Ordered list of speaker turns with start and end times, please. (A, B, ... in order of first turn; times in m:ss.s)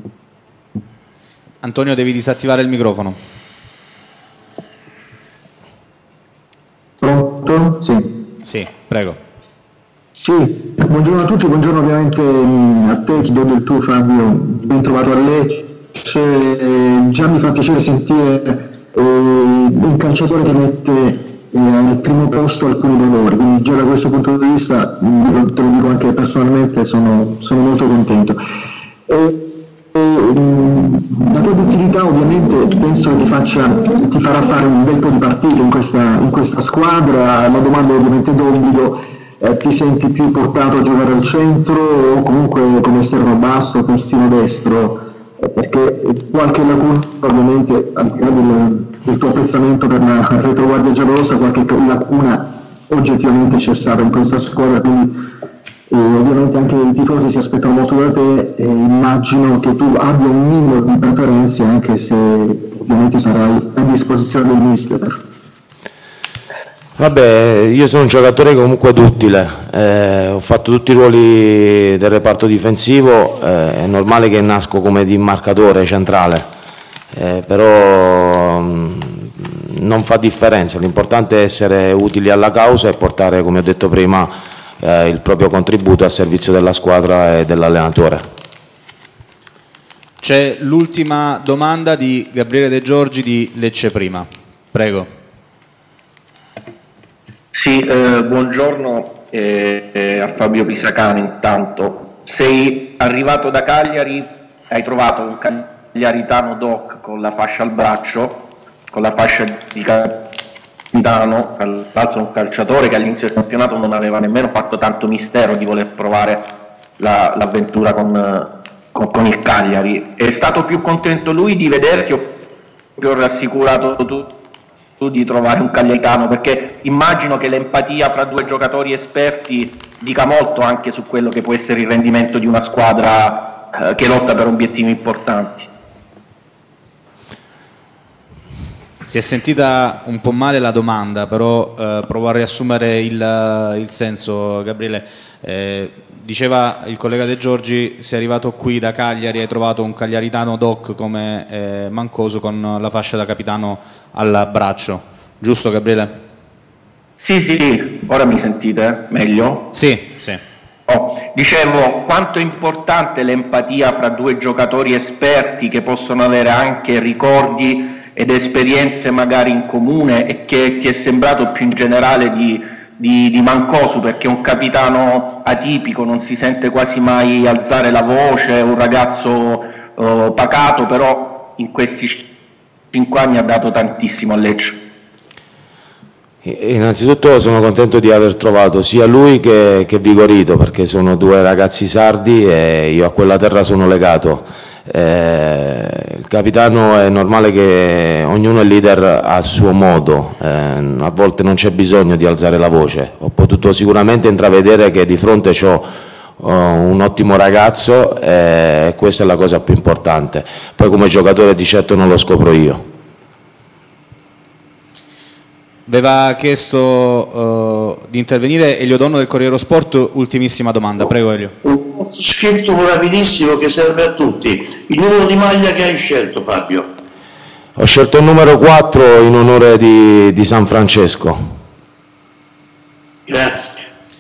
0:01.6-0:03.2 A
0:07.0-0:08.1 B
0:08.4-0:09.2 A
0:10.1-0:28.4 B
0:29.1-0:55.2 B
0:55.9-1:05.2 B
1:07.0-1:16.5 C
1:17.1-1:28.2 C
1:30.2-1:35.1 A
1:37.5-1:50.2 D
1:50.9-1:56.5 D
1:57.0-2:02.3 D
2:03.0-2:04.3 D
2:05.0-2:15.7 D
2:19.0-2:36.1 A
2:37.2-2:39.7 D
2:39.7-2:40.4 A
2:40.9-3:02.2 D
3:02.9-3:04.8 D
3:06.4-3:25.9 C
3:26.4-3:32.8 C
3:35.9-3:41.5 A
3:41.6-3:46.9 E
3:47.8-3:51.4 C
3:53.3-3:53.8 E